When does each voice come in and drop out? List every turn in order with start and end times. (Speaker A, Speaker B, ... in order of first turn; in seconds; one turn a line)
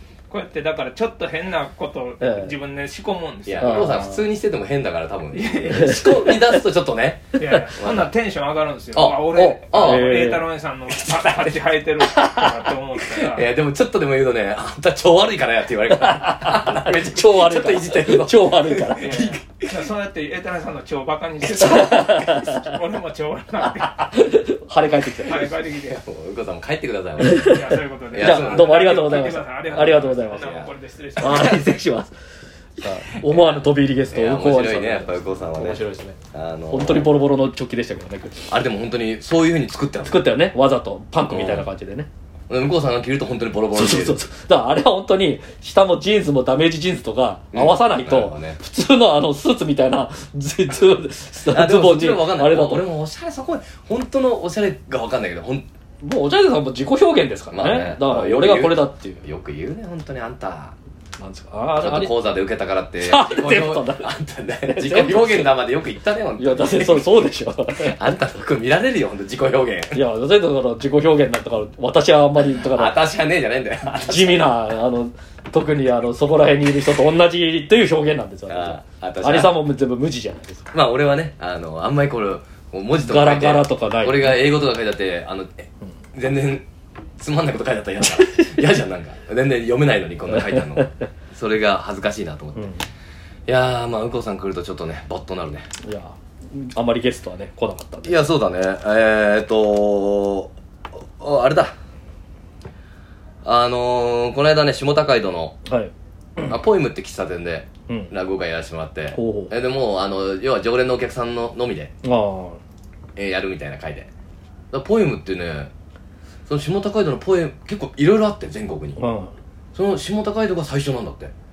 Speaker A: 0.3-3.9
Speaker B: 2.2-2.5
Speaker C: 3.5-8.1
Speaker B: 3.6-4.2
Speaker A: 5.3-6.0
Speaker B: 5.7-6.4
Speaker A: 7.4-13.5
Speaker C: 8.9-10.2
Speaker B: 9.3-10.4
Speaker C: 10.9-12.3
Speaker C: 13.0-19.9
Speaker B: 15.9-19.4
Speaker A: 18.9-24.1
Speaker B: 21.6-22.7
Speaker B: 24.0-25.5
Speaker A: 25.2-26.0
Speaker C: 25.3-27.6
Speaker B: 27.2-30.6
Speaker A: 27.4-31.8
Speaker C: 28.1-30.7
Speaker B: 31.2-32.1
Speaker B: 32.8-36.2
Speaker C: 33.3-37.1
Speaker B: 36.7-38.5
Speaker C: 38.5-40.4
Speaker B: 40.0-42.1
Speaker C: 41.3-41.7
Speaker C: 42.5-44.2
Speaker B: 43.7-52.9
Speaker C: 47.5-48.6
Speaker C: 51.5-55.7
Speaker B: 56.0-59.2
Speaker C: 57.5-60.8
Speaker B: 61.2-62.1
Speaker C: 61.8-67.2
Speaker B: 63.0-64.1
Speaker B: 64.7-65.6
Speaker B: 66.4-68.0
Speaker C: 67.8-70.0
Speaker B: 69.9-73.0
Speaker C: 72.4-74.6
Speaker B: 73.9-80.7
Speaker C: 78.5-79.6
Speaker C: 80.7-86.7
Speaker B: 83.0-84.5
Speaker C: 87.2-92.7
Speaker B: 88.1-88.6
Speaker B: 90.3-90.9
Speaker B: 92.6-92.8
Speaker C: 93.5-95.7
Speaker B: 95.8-98.2
Speaker C: 98.0-100.5
Speaker C: 101.2-101.7
Speaker C: 103.4-105.6
Speaker B: 105.7-105.9
Speaker C: 106.5-111.9
Speaker B: 109.1-109.5
Speaker B: 112.0-112.6
Speaker C: 113.2-114.1
Speaker C: 114.7-115.7
Speaker C: 116.5-119.0
Speaker B: 119.0-119.3
Speaker C: 119.7-121.3